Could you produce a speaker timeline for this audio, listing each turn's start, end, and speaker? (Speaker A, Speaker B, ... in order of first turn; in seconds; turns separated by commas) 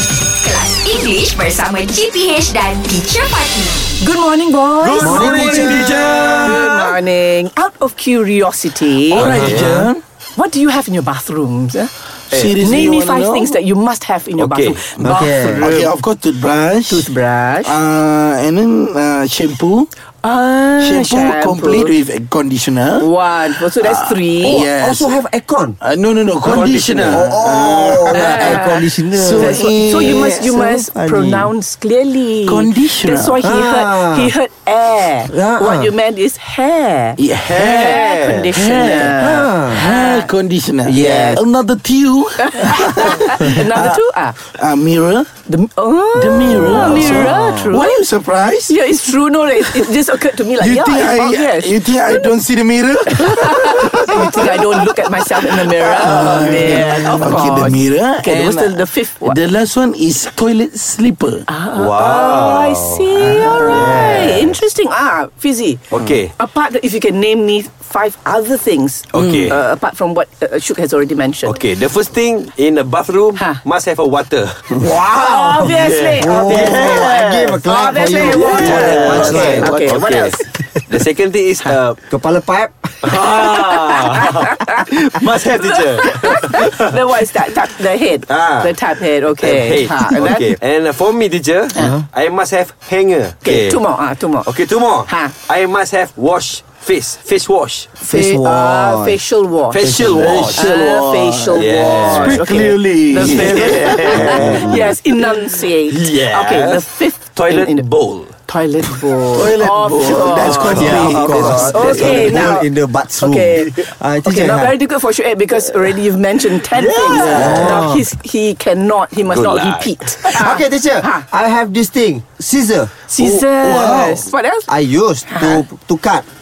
Speaker A: 0.4-3.9, Speaker B: 4.0-9.7, Speaker C: 4.8-6.8, Speaker D: 5.0-6.6, Speaker E: 5.0-6.2, Speaker C: 9.1-9.8, Speaker D: 9.2-9.9, Speaker E: 9.2-10.0, Speaker B: 10.4-11.9, Speaker E: 12.3-13.5, Speaker B: 12.6-15.9, Speaker C: 14.4-14.8, Speaker E: 14.9-17.1, Speaker D: 15.0-15.9, Speaker B: 16.9-17.8, Speaker E: 17.6-19.9, Speaker B: 20.2-21.9, Speaker E: 20.8-25.2, Speaker B: 23.0-24.7, Speaker D: 24.4-25.8, Speaker E: 25.8-30.7, Speaker D: 26.4-31.5, Speaker C: 26.5-27.2, Speaker B: 28.1-40.3, Speaker E: 32.4-33.4, Speaker D: 33.4-34.3, Speaker D: 35.3-35.9, Speaker E: 37.2-44.0, Speaker C: 37.5-38.4, Speaker D: 39.2-39.9, Speaker D: 40.8-41.4, Speaker B: 42.4-44.4, Speaker E: 44.5-45.3, Speaker B: 45.5-48.0, Speaker E: 46.1-48.7, Speaker D: 46.5-47.8, Speaker B: 48.7-52.3, Speaker E: 50.6-54.8, Speaker B: 53.1-59.4, Speaker E: 55.5-61.5, Speaker B: 61.5-71.6, Speaker C: 61.7-64.5, Speaker E: 63.4-64.1, Speaker D: 63.6-64.4, Speaker C: 65.9-66.3, Speaker C: 69.1-69.6, Speaker C: 71.5-74.8, Speaker B: 73.4-73.6, Speaker D: 74.8-79.7, Speaker B: 75.0-77.1, Speaker C: 75.6-82.0, Speaker B: 77.7-80.4, Speaker E: 78.5-79.9, Speaker D: 82.0-83.0, Speaker C: 83.0-86.9, Speaker B: 83.4-84.9, Speaker B: 85.5-90.5, Speaker C: 88.3-88.7, Speaker C: 89.4-93.8, Speaker D: 91.8-92.1, Speaker B: 93.4-94.5, Speaker C: 94.5-97.9, Speaker B: 95.1-95.3, Speaker D: 98.0-99.2, Speaker B: 98.0-107.9, Speaker C: 99.7-100.7, Speaker E: 99.8-104.6, Speaker D: 99.8-100.4, Speaker C: 101.5-104.6, Speaker D: 104.1-105.0, Speaker C: 105.9-106.8, Speaker C: 107.4-108.3, Speaker B: 108.5-121.3, Speaker E: 109.3-112.3, Speaker C: 110.5-112.5, Speaker D: 110.7-114.8, Speaker C: 116.8-117.7, Speaker E: 117.0-117.8, Speaker D: 117.1-118.1, Speaker C: 119.3-120.0, Speaker D: 120.2-126.3, Speaker B: 123.1-124.7, Speaker B: 125.3-125.7